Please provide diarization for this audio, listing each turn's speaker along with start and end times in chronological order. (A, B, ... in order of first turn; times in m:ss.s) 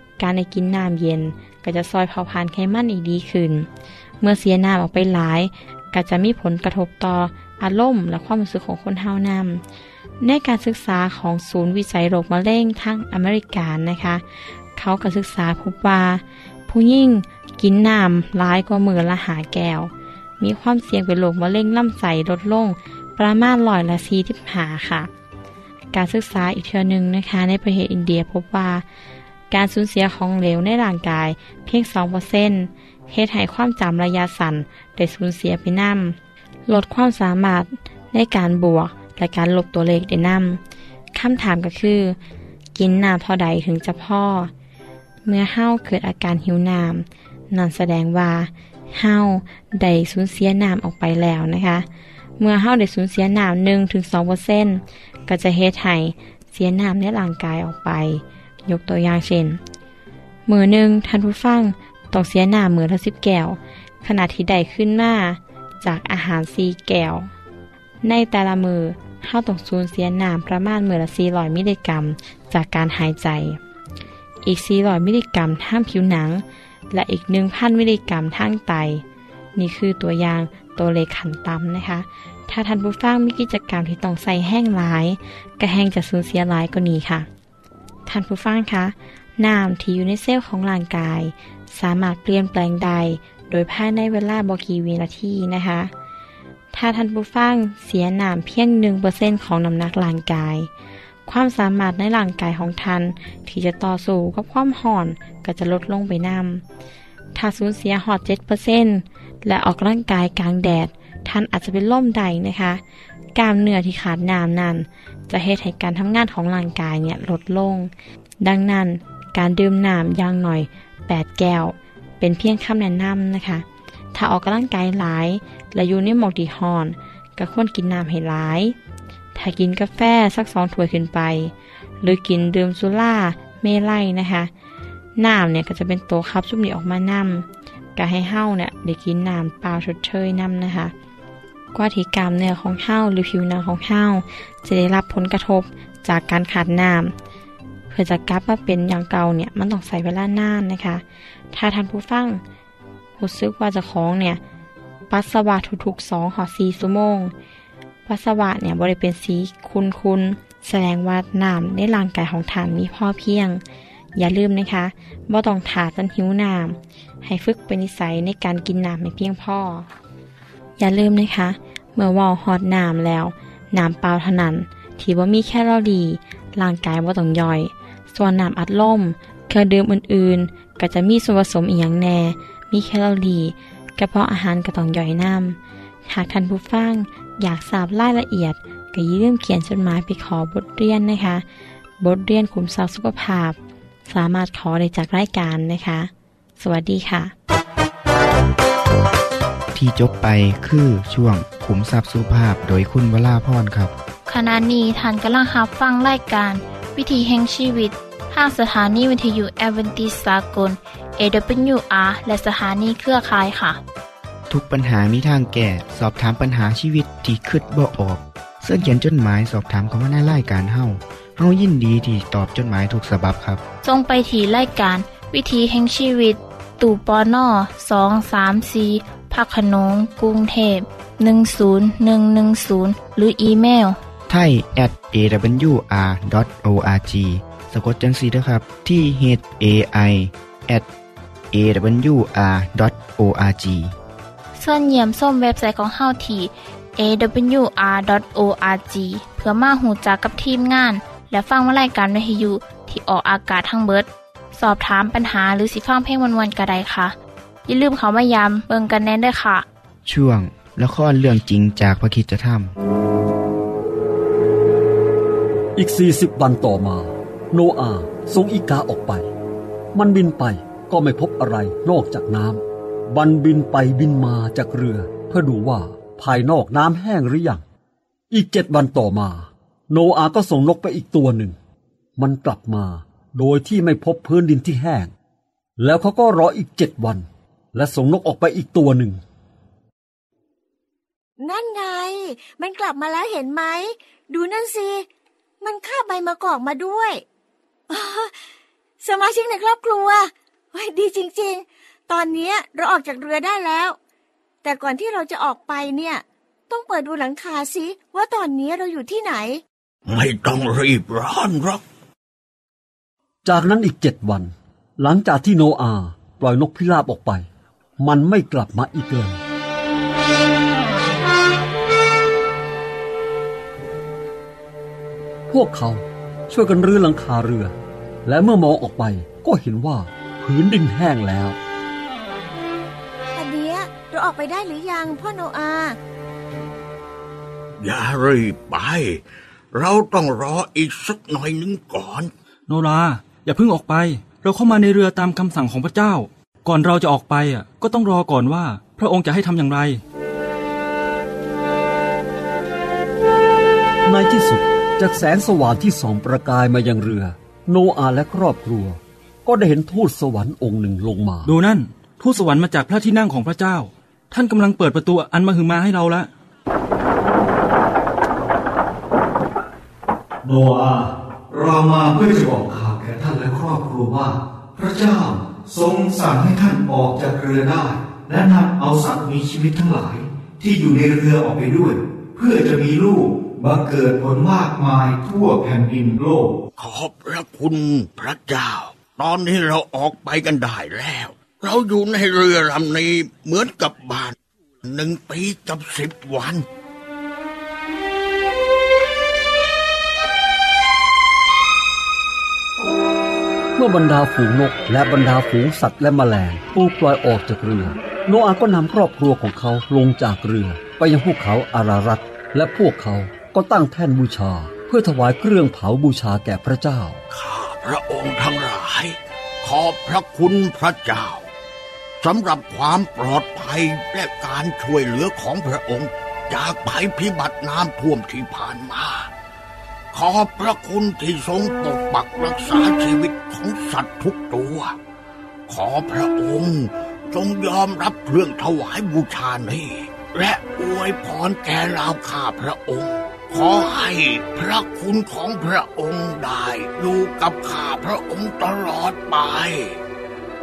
0:00.2-0:03.7 A
0:04.2-0:09.6 A
0:10.2-0:25.1 A
0:25.9-0:28.8 A
0:29.5-0:36.2 A
0:36.7-0:40.6 A
0:41.1-0:42.2 A
0:42.7-0:44.5 A
0:45.2-0:51.8 A
0:52.4-0:59.6 A
1:00.4-1:07.3 A
1:08.0-1:13.6 A
1:14.4-1:19.0 A
1:19.6-1:27.3 A
1:28.0-1:35.9 A
1:36.7-1:40.7 A
1:41.2-1:46.6 A
1:47.3-1:52.8 A
1:53.3-2:08.7 A
2:09.3-2:14.5 A
2:15.2-2:20.9 A
2:21.7-2:27.1 A
2:27.9-2:32.4 A
2:33.2-2:34.4 A
2:35.1-2:37.3 A
2:38.0-2:43.6 A
2:44.2-2:49.9 A
2:50.8-3:11.4 A
3:12.0-3:17.3 A
3:19.7-3:23.9 B
3:24.3-3:33.8 C
3:34.5-3:43.6 B
3:43.8-3:54.0 C
3:54.3-4:00.9 B
4:01.5-4:03.9 B
4:04.6-4:17.2 C
4:17.7-4:19.6 C
4:20.0-4:22.7 B
4:25.8-4:29.2 D
4:29.9-4:37.6 D
4:38.3-4:41.6 D
4:42.2-4:45.1 D
4:45.8-4:49.2 D
4:51.4-4:55.1 E
4:55.6-4:57.2 E
4:57.9-4:58.4 E
4:59.0-5:04.0 E
5:04.6-5:09.6 E
5:10.1-5:11.8 F
5:13.4-5:17.4 D
5:18.0-5:19.4 D
5:25.5-5:27.7 D
5:28.2-5:31.6 D
5:33.3-5:36.0 E
5:37.8-5:39.2 F
5:39.7-5:42.3 F
5:42.7-5:50.0 G
5:54.0-6:01.5 D
6:01.4-6:06.3 G
6:10.4-6:26.5 H
6:26.8-6:36.6 F
6:43.8-6:57.2 D
6:57.3-7:01.4 F
7:02.2-7:09.3 F
7:10.1-7:15.0 F
7:15.7-7:30.0 F